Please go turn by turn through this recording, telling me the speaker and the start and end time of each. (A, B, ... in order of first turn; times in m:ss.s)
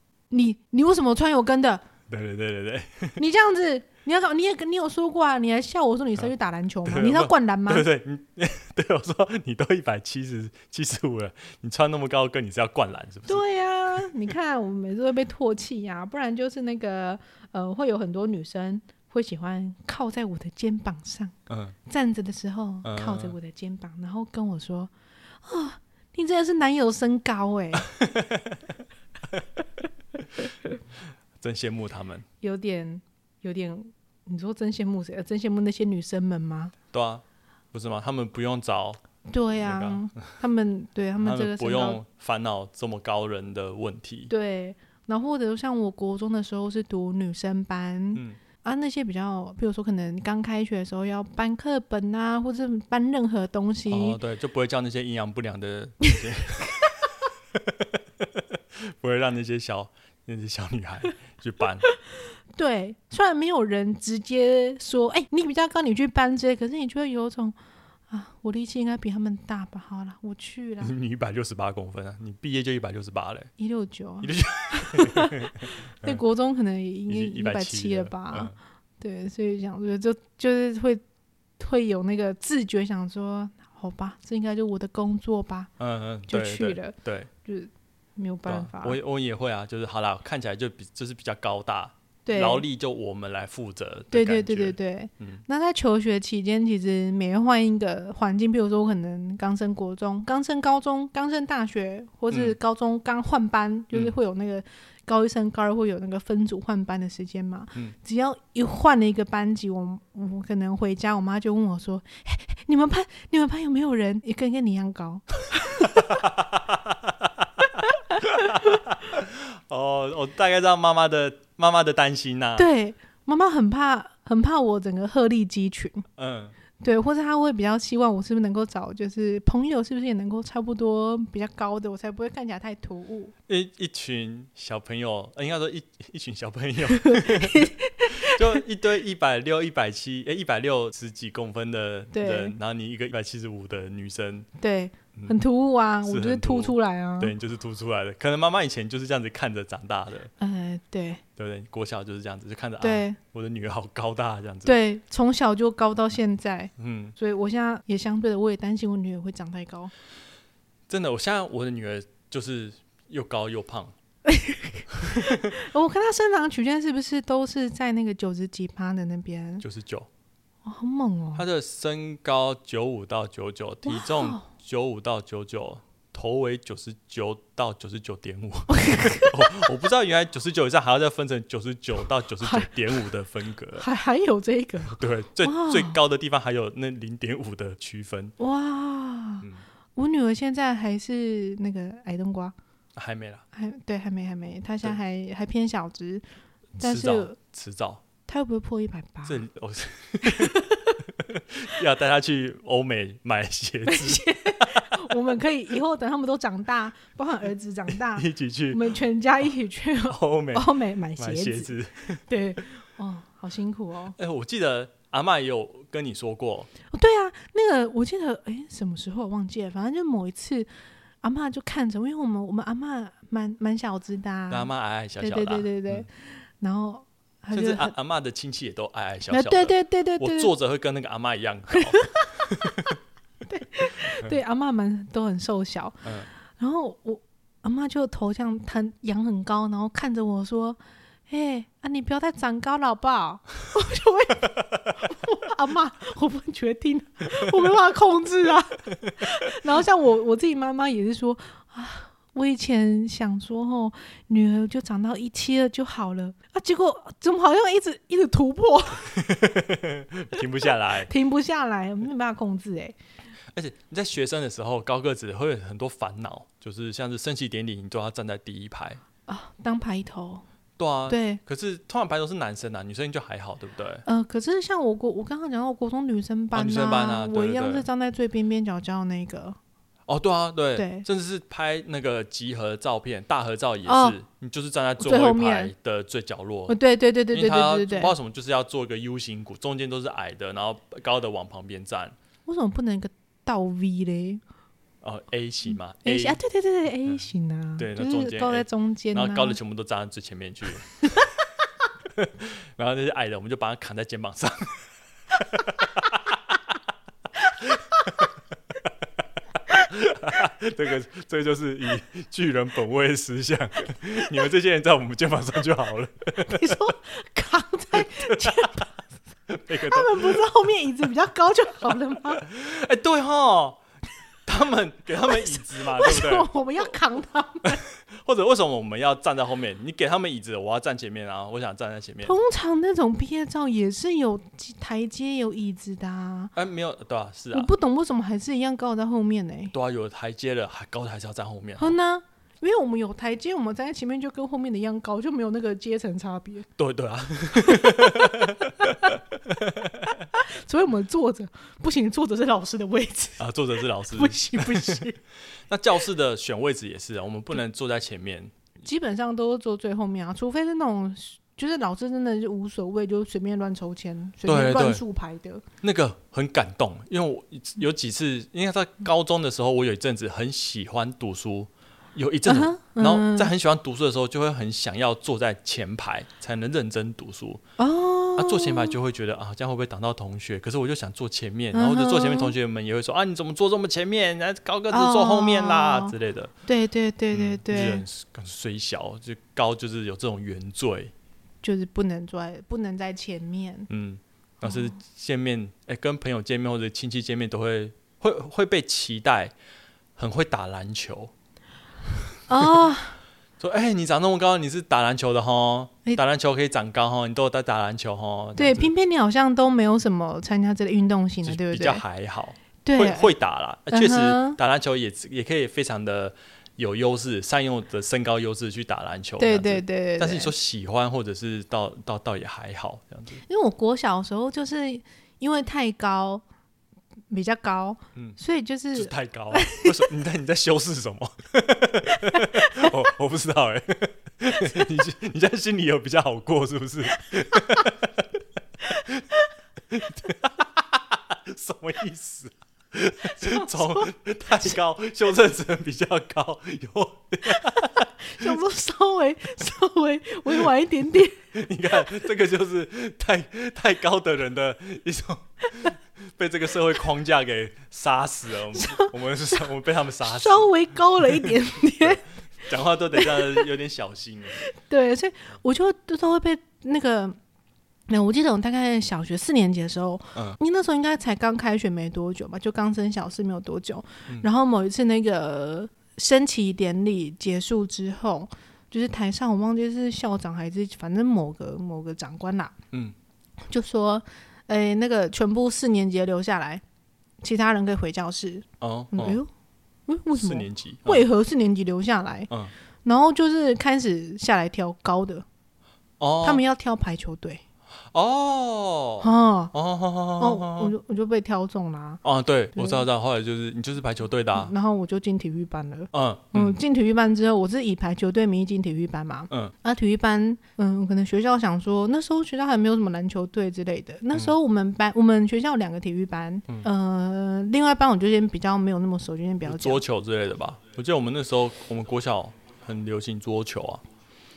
0:00.3-0:01.8 A
0:02.1-0:03.2 B
0:03.2-0:07.8 A
0:06.8-0:14.1 B
0:13.3-0:21.3 A
0:21.5-0:21.8 B
0:21.8-0:24.9 A
0:22.8-0:23.4 B
0:25.4-0:27.9 A
0:27.8-0:28.7 B
0:31.4-0:32.2 B
0:32.4-0:36.7 A
0:36.9-0:39.0 B
0:39.2-0:42.0 A
0:39.6-0:40.2 B
0:41.2-0:44.3 B
0:44.3-0:54.2 A
0:53.9-0:56.8 B
0:57.5-1:01.9 B
1:02.6-1:07.5 A
1:08.1-1:10.9 A
1:10.8-1:13.5 B
1:13.6-1:21.0 A
1:14.2-1:16.2 B
1:17.1-1:18.6 B
1:21.6-1:25.7 A
1:25.8-1:27.3 B
1:26.3-1:29.0 A
1:28.4-1:35.4 B
1:32.2-1:32.6 A
1:34.1-1:56.1 A
1:55.8-1:57.6 B
1:57.8-1:58.7 A
1:58.2-2:02.7 B
2:02.6-2:06.0 A
2:06.2-2:06.5 B
2:06.8-2:13.3 A
2:13.5-2:24.5 B
2:17.0-2:18.6 A
2:22.1-2:22.5 A
2:24.6-2:27.3 A
2:26.0-2:30.3 B
2:30.4-2:31.2 A
2:31.4-2:34.8 B
2:32.8-2:33.2 A
2:34.6-2:39.9 A
2:36.8-2:37.1 B
2:40.9-2:43.9 B
2:44.2-2:49.6 A
2:45.0-2:45.5 B
2:49.6-2:50.1 B
2:50.6-2:51.4 A
2:51.3-3:03.8 B
2:53.8-2:54.5 A
2:58.7-2:59.5 A
3:02.4-3:02.7 A
3:03.8-3:06.0 A
3:04.9-3:08.3 B
3:08.4-3:12.5 A
3:13.0-3:13.4 B
3:13.5-3:16.2 A
3:16.8-3:17.4 A
3:16.8-3:18.0 B
3:18.2-3:19.4 A
3:19.2-3:25.2 B
3:20.2-3:21.0 A
3:23.9-3:31.7 A
3:27.9-3:28.9 B
3:30.1-3:32.6 B
3:32.3-3:34.2 A
3:34.2-3:36.7 B
3:36.9-3:40.7 A
3:41.2-3:47.9 A
3:44.5-3:46.1 B
3:47.5-3:53.0 B
3:49.3-3:50.5 A
3:51.7-3:52.5 A
3:53.5-4:19.2 A
3:56.0-3:56.3 B
4:19.1-4:21.1 B
4:21.1-4:23.0 A
4:23.5-4:29.0 B
4:29.3-4:30.4 A
4:30.8-4:34.0 B
4:31.1-4:31.4 A
4:34.0-4:39.6 A
4:36.5-4:37.8 B
4:40.1-4:46.8 B
4:40.8-4:41.0 A
4:43.8-4:44.2 A
4:45.0-4:45.7 A
4:46.7-4:48.1 A
4:47.3-4:52.1 B
4:52.4-4:54.4 A
4:55.0-4:56.4 B
4:56.0-4:59.6 A
4:57.8-5:01.3 B
5:02.1-5:06.6 B
5:07.6-5:08.3 B
5:09.9-5:16.8 B
5:16.4-5:19.0 A
5:17.9-5:18.8 B
5:19.5-5:20.4 B
5:19.7-5:22.4 A
5:22.4-5:23.8 B
5:24.4-5:26.5 B
5:25.2-5:27.8 A
5:27.7-5:32.3 B
5:32.2-5:36.5 A
5:36.5-5:37.7 B
5:37.5-5:39.7 A
5:39.7-5:42.0 B
5:41.8-5:46.7 A
5:46.8-5:50.2 B
5:47.5-5:49.2 A
5:50.3-5:53.5 A
5:53.4-5:55.0 B
5:54.1-5:55.2 A
5:55.7-5:58.5 B
5:58.8-6:05.6 A
6:04.4-6:05.0 B
6:05.8-6:17.6 B
6:12.4-6:13.5 A
6:17.8-6:19.0 A
6:18.4-6:26.5 B
6:21.7-6:22.5 A
6:24.9-6:26.1 A
6:26.6-6:28.0 A
6:27.3-6:31.1 B
6:31.6-6:33.9 A
6:33.9-6:39.5 B
6:34.6-6:34.9 A
6:40.2-6:41.3 B
6:42.5-6:43.2 A
6:43.6-6:48.9 B
6:48.6-6:52.0 A
6:51.4-7:03.4 B
6:52.8-6:53.3 A
6:53.9-6:54.6 A
6:59.4-7:00.5 A
7:03.4-7:06.4 A
7:07.3-7:10.0 A
7:08.9-7:18.3 B
7:12.1-7:12.9 A
7:14.6-7:14.9 A
7:18.9-7:19.5 A
7:18.9-7:19.2 B
7:19.9-7:28.5 B
7:23.2-7:24.7 A
7:27.5-7:32.1 A
7:31.5-7:44.6 B
7:38.7-7:39.6 A
7:40.2-7:42.2 A
7:43.2-7:43.6 A
7:44.6-7:47.4 A
7:48.1-8:02.7 A
8:03.7-8:06.8 A
8:07.4-8:09.5 A
8:08.8-8:09.4 B
8:10.1-8:12.5 A
8:10.4-8:11.2 B
8:13.0-8:15.4 A
8:16.2-8:16.6 B
8:16.4-8:17.6 A
8:18.1-8:20.9 B
8:19.2-8:19.7 A
8:20.4-8:22.2 A
8:22.2-8:24.7 B
8:22.7-8:23.0 A
8:24.5-8:40.0 A
8:26.1-8:26.8 B
8:39.6-8:44.0 B